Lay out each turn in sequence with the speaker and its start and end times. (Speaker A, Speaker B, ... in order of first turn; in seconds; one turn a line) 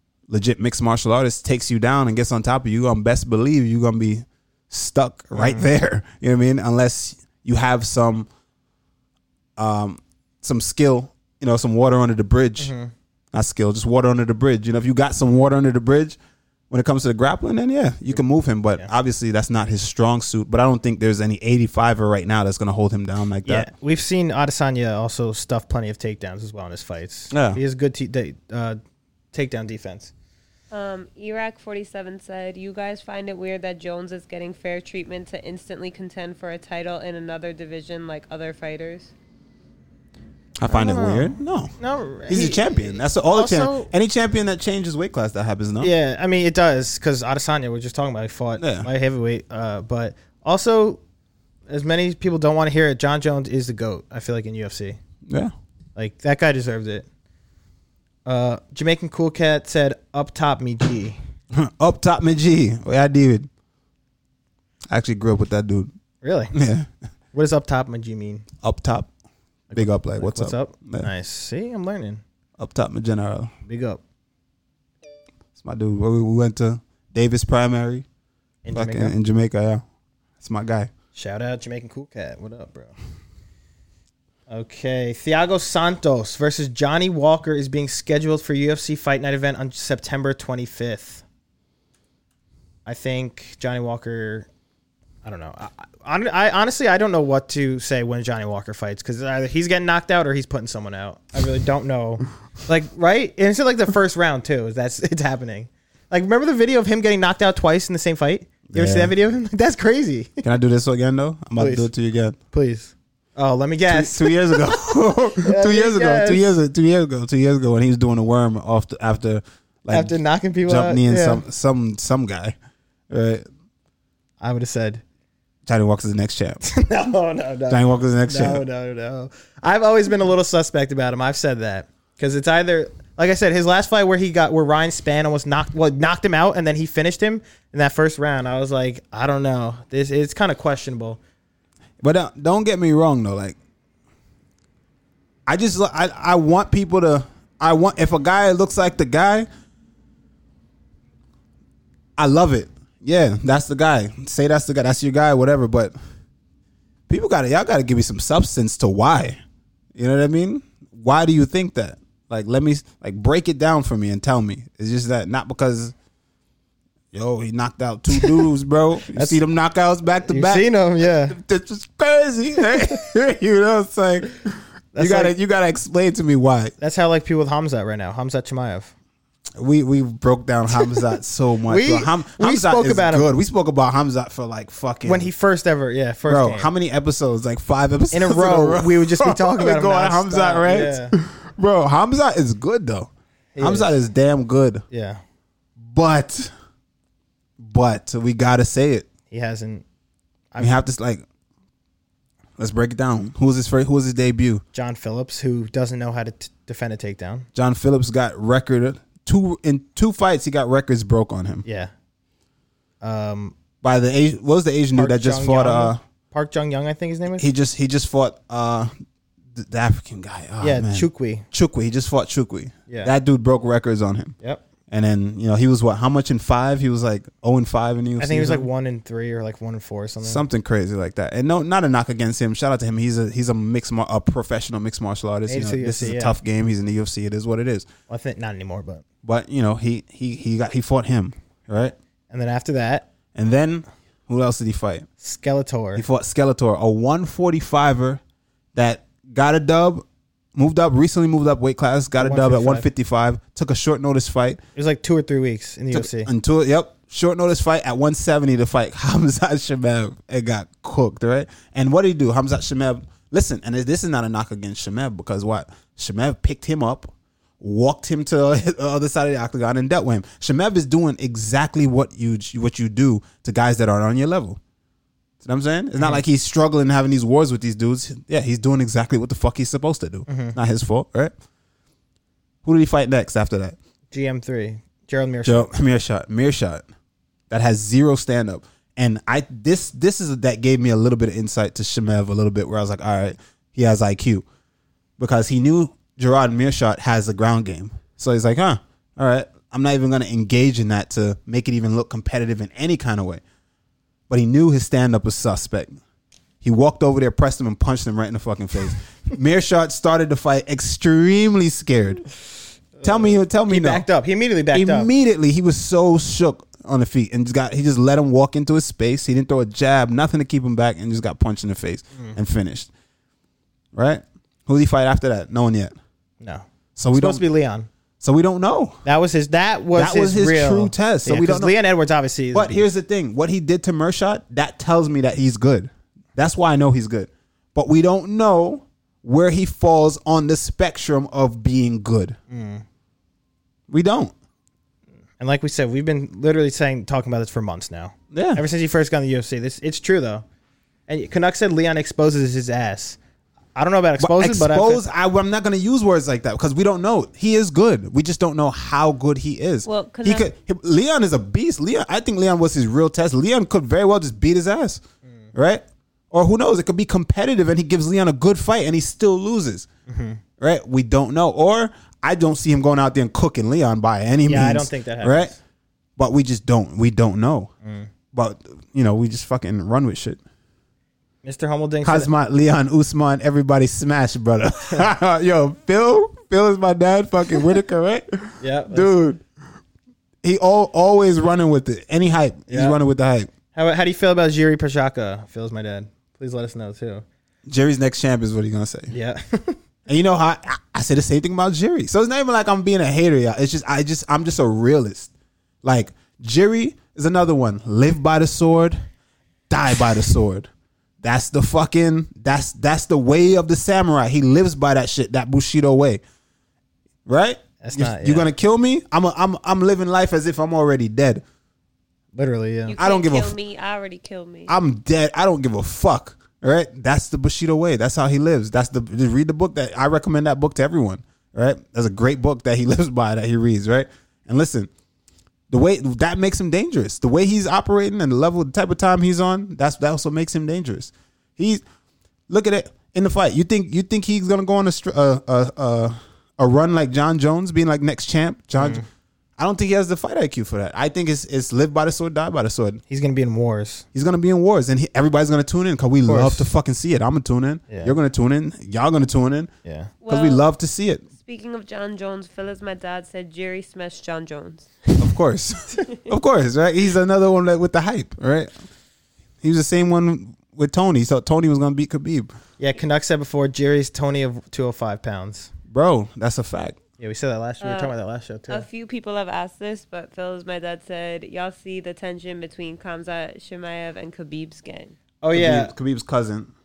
Speaker A: 0.3-8.3
Speaker B: 5.3-5.7
Speaker A: 9.6-12.7
Speaker B: 12.6-12.9
Speaker A: 13.3-16.2
Speaker A: 16.7-23.7
Speaker B: 23.4-28.8
Speaker A: 27.3-27.6
Speaker B: 29.3-30.1
Speaker C: 30.7-39.1
Speaker A: 40.6-41.7
Speaker B: 40.7-43.9
Speaker A: 42.3-45.9
Speaker B: 45.8-51.0
Speaker A: 48.6-48.9
Speaker B: 51.7-55.0
Speaker A: 55.3-55.5
Speaker B: 56.0-57.1
Speaker B: 58.3-61.2
Speaker A: 61.5-63.5
Speaker A: 64.9-65.9
Speaker B: 66.2-66.5
Speaker A: 66.5-66.9
Speaker B: 67.3-68.5
Speaker A: 68.6-69.1
Speaker B: 69.7-72.2
Speaker A: 69.7-71.1
Speaker A: 72.6-73.5
Speaker B: 73.7-74.0
Speaker A: 75.6-78.0
Speaker B: 78.7-79.2
Speaker A: 78.7-79.8
Speaker A: 80.4-80.9
Speaker B: 81.2-83.0
Speaker B: 84.5-91.2
Speaker B: 92.9-94.5
Speaker B: 95.2-110.4
Speaker A: 108.7-109.1
Speaker A: 110.4-112.4
Speaker B: 111.6-111.9
Speaker B: 112.5-116.4
Speaker A: 113.9-120.2
Speaker B: 119.9-121.4
Speaker A: 120.7-122.6
Speaker A: 123.1-123.5
Speaker B: 124.4-125.0
Speaker A: 125.7-126.6
Speaker B: 126.6-141.2
Speaker A: 127.7-128.6
Speaker A: 142.0-143.6
Speaker A: 145.5-149.5
Speaker A: 152.2-155.9
Speaker A: 157.1-159.4
Speaker A: 159.9-165.9
Speaker A: 167.1-170.7
Speaker B: 168.2-168.4
Speaker B: 169.1-169.4
Speaker B: 170.3-171.4
Speaker A: 171.3-176.7
Speaker B: 174.9-175.3
Speaker B: 176.8-178.9
Speaker A: 179.6-185.3
Speaker B: 181.7-183.3
Speaker B: 185.0-186.7
Speaker A: 186.3-194.8
Speaker B: 188.1-191.2
Speaker B: 193.6-193.9
Speaker B: 194.9-195.2
Speaker A: 195.8-196.5
Speaker A: 197.6-199.1
Speaker B: 199.3-199.8
Speaker A: 200.6-201.2
Speaker A: 202.6-204.6
Speaker B: 204.7-207.5
Speaker A: 207.6-211.6
Speaker B: 211.7-211.9
Speaker B: 213.0-213.6
Speaker A: 213.8-216.0
Speaker B: 214.9-217.5
Speaker A: 217.4-218.9
Speaker A: 219.5-224.3
Speaker B: 220.6-221.4
Speaker A: 224.9-228.7
Speaker B: 228.2-230.4
Speaker A: 230.2-237.9
Speaker B: 235.5-236.4
Speaker B: 238.1-239.0
Speaker A: 239.2-241.9
Speaker B: 242.3-243.1
Speaker A: 243.3-245.1
Speaker B: 245.2-246.0
Speaker A: 246.0-248.2
Speaker A: 248.8-254.6
Speaker B: 252.2-252.9
Speaker B: 254.8-256.3
Speaker A: 255.9-274.6
Speaker A: 275.4-281.3
Speaker B: 280.3-280.6
Speaker A: 282.6-283.8
Speaker B: 284.1-285.7
Speaker A: 285.4-286.8
Speaker A: 287.5-294.4
Speaker A: 295.2-303.4
Speaker A: 304.3-306.0
Speaker A: 306.6-312.3
Speaker B: 313.0-315.1
Speaker A: 313.0-314.1
Speaker A: 314.7-322.9
Speaker A: 323.9-325.9
Speaker B: 326.4-327.9
Speaker A: 327.0-327.4
Speaker A: 328.2-329.0
Speaker B: 329.1-332.9
Speaker A: 329.9-331.7
Speaker A: 332.5-342.4
Speaker B: 342.5-342.8
Speaker A: 343.9-344.3
Speaker B: 345.4-350.4
Speaker A: 348.3-348.6
Speaker B: 351.1-353.2
Speaker B: 353.8-355.1
Speaker A: 354.2-365.0
Speaker C: 359.9-360.5
Speaker A: 365.5-369.9
Speaker B: 370.1-370.4
Speaker A: 370.6-375.5
Speaker B: 374.5-375.6
Speaker A: 376.2-377.7
Speaker B: 377.8-378.1
Speaker A: 378.3-380.4
Speaker B: 381.4-382.3
Speaker A: 382.0-389.4
Speaker B: 388.6-389.1
Speaker A: 390.4-393.5
Speaker B: 392.7-393.0
Speaker B: 393.7-397.2
Speaker A: 397.7-399.1
Speaker B: 399.1-399.8
Speaker A: 400.1-405.3
Speaker A: 405.8-409.0
Speaker A: 409.7-410.7
Speaker A: 411.2-416.2
Speaker A: 417.3-421.4
Speaker B: 417.8-418.5
Speaker B: 422.3-423.0
Speaker C: 422.9-424.7
Speaker A: 423.0-423.6
Speaker A: 424.7-434.9
Speaker A: 435.7-441.8
Speaker A: 442.5-449.0
Speaker B: 448.8-449.1
Speaker A: 449.6-453.0
Speaker B: 453.1-454.1
Speaker A: 454.1-459.7
Speaker B: 456.3-456.7
Speaker B: 457.9-458.1
Speaker B: 459.9-460.1
Speaker C: 460.2-460.6
Speaker A: 460.3-461.2
Speaker C: 461.4-465.1
Speaker A: 465.2-468.7
Speaker A: 469.6-472.5
Speaker B: 472.8-475.7
Speaker A: 475.9-477.0
Speaker B: 477.2-478.9
Speaker C: 477.8-478.1
Speaker C: 478.7-485.1
Speaker B: 485.4-485.9
Speaker A: 485.5-486.7